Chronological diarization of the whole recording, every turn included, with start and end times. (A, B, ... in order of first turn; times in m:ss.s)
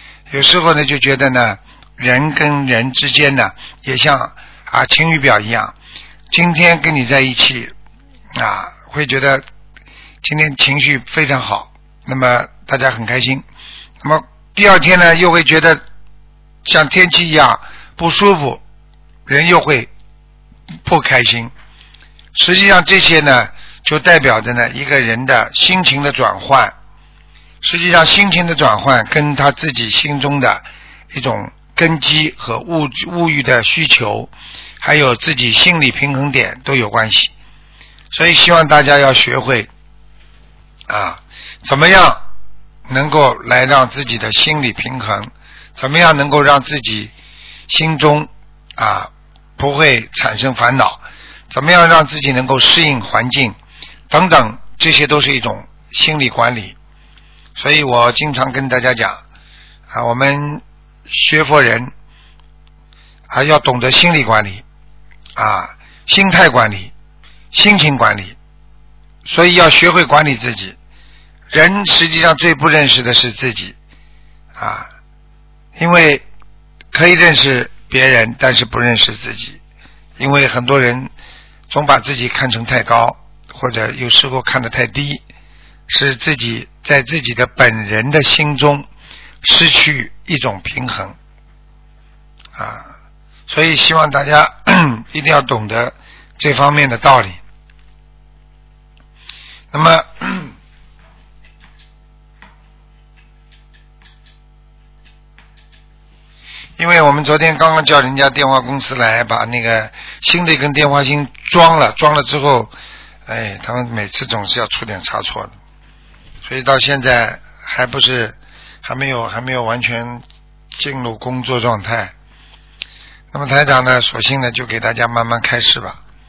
0:00.3-0:05.7 A
0:06.3-0:07.7 A
0:08.3-0:09.4 A
0:10.2-0:13.4 A
0:14.0-0:15.8 A
0:16.6-0:18.6 A
0:19.3-0:19.9 A
0:20.8-0:21.5 A
0:22.3-0:26.7 A
0:27.6-0:37.3 A
0:38.1-0:39.7 A
0:40.9-0:42.2 A
0:42.9-0:47.1 A
0:47.7-0:53.6 A
0:54.1-0:56.8 A
0:57.6-0:59.2 A
0:59.9-1:01.9 A
1:03.3-1:04.6 A
1:05.4-1:06.9 A
1:07.5-1:08.4 A
1:09.2-1:10.8 A
1:11.5-1:13.7 A
1:14.6-1:14.9 A
1:15.8-1:16.2 A
1:16.9-1:19.6 A
1:20.2-1:21.1 A
1:21.7-1:25.2 A
1:25.9-1:28.9 A
1:29.4-1:31.2 A
1:32.5-1:32.9 A
1:33.5-1:37.4 A
1:39.7-1:40.5 A
1:46.8-1:52.7 A
1:53.2-1:55.5 A
1:56.4-2:00.2 A
2:00.7-2:02.1 A
2:03.3-2:06.0 A